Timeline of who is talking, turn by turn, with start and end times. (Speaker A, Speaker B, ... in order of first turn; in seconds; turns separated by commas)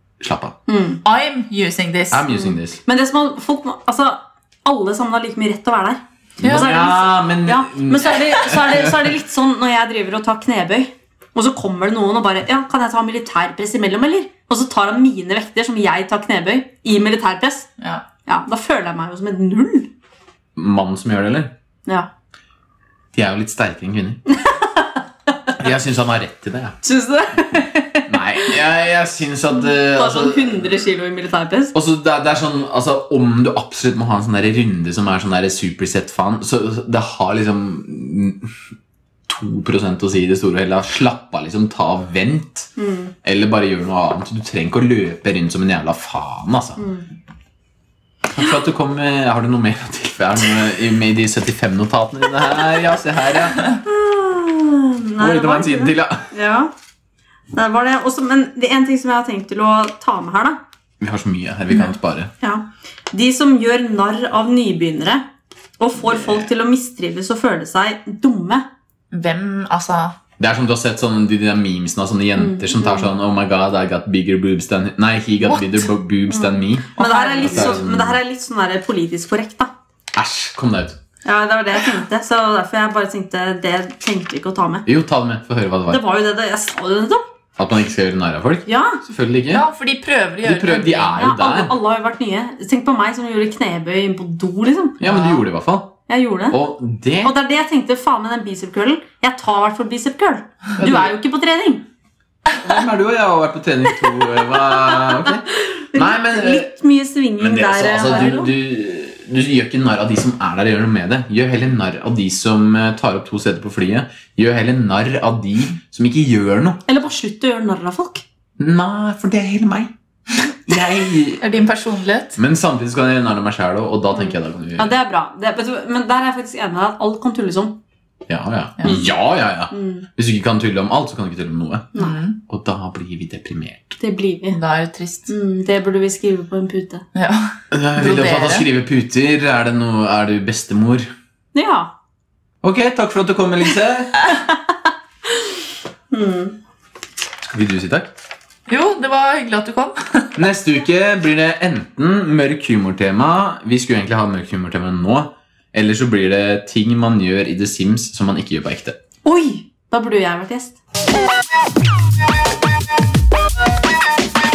Speaker A: 0.2-0.6, Speaker B: 0.7-1.0, Speaker C: 1.0-2.3, Speaker A: 2.1-2.8, Speaker B: 2.8-17.7, Speaker A: 6.4-9.1, Speaker C: 17.8-18.0, Speaker B: 18.2-19.9, Speaker A: 20.6-21.5, Speaker A: 23.1-24.2, Speaker B: 24.3-25.0, Speaker A: 25.6-26.8, Speaker B: 26.8-28.6, Speaker A: 28.1-30.6, Speaker B: 29.5-31.7, Speaker A: 31.7-38.5, Speaker A: 39.3-42.7, Speaker B: 42.8-43.1, Speaker A: 43.2-46.8, Speaker B: 46.8-47.1, Speaker A: 48.3-53.7, Speaker B: 53.6-56.7, Speaker A: 55.2-56.3, Speaker B: 57.5-60.6, Speaker A: 61.0-62.3, Speaker B: 62.4-65.3, Speaker B: 65.8-68.7, Speaker C: 69.1-70.2, Speaker A: 70.4-78.2, Speaker B: 72.3-73.1, Speaker C: 75.4-75.9, Speaker B: 76.3-79.7, Speaker C: 77.0-77.8, Speaker A: 80.1-81.0, Speaker B: 81.2-84.8, Speaker A: 84.8-86.0, Speaker B: 85.9-87.2, Speaker A: 87.6-89.6, Speaker B: 88.7-89.0, Speaker C: 89.5-91.1, Speaker A: 90.4-91.7, Speaker B: 91.2-95.0, Speaker A: 95.0-96.0, Speaker C: 95.0-95.4, Speaker B: 96.1-96.6, Speaker A: 96.5-97.3, Speaker B: 97.2-101.8, Speaker C: 100.8-101.1, Speaker A: 102.5-106.7, Speaker B: 104.8-108.5, Speaker A: 107.4-116.8, Speaker C: 108.1-108.4, Speaker B: 116.9-118.2, Speaker A: 118.6-119.9, Speaker A: 120.7-121.4, Speaker C: 121.4-122.4, Speaker A: 122.3-124.9, Speaker B: 124.1-127.8, Speaker A: 128.3-131.9, Speaker B: 129.7-130.1, Speaker B: 131.9-132.2, Speaker C: 131.9-132.4, Speaker A: 132.5-134.0, Speaker B: 134.0-134.6, Speaker C: 134.5-135.3, Speaker B: 135.3-137.1, Speaker C: 137.1-138.7, Speaker A: 137.7-141.1, Speaker B: 141.5-141.9, Speaker A: 142.6-144.2, Speaker B: 146.1-146.6, Speaker A: 147.4-148.1, Speaker C: 148.7-150.3, Speaker A: 150.3-159.0, Speaker B: 159.2-160.8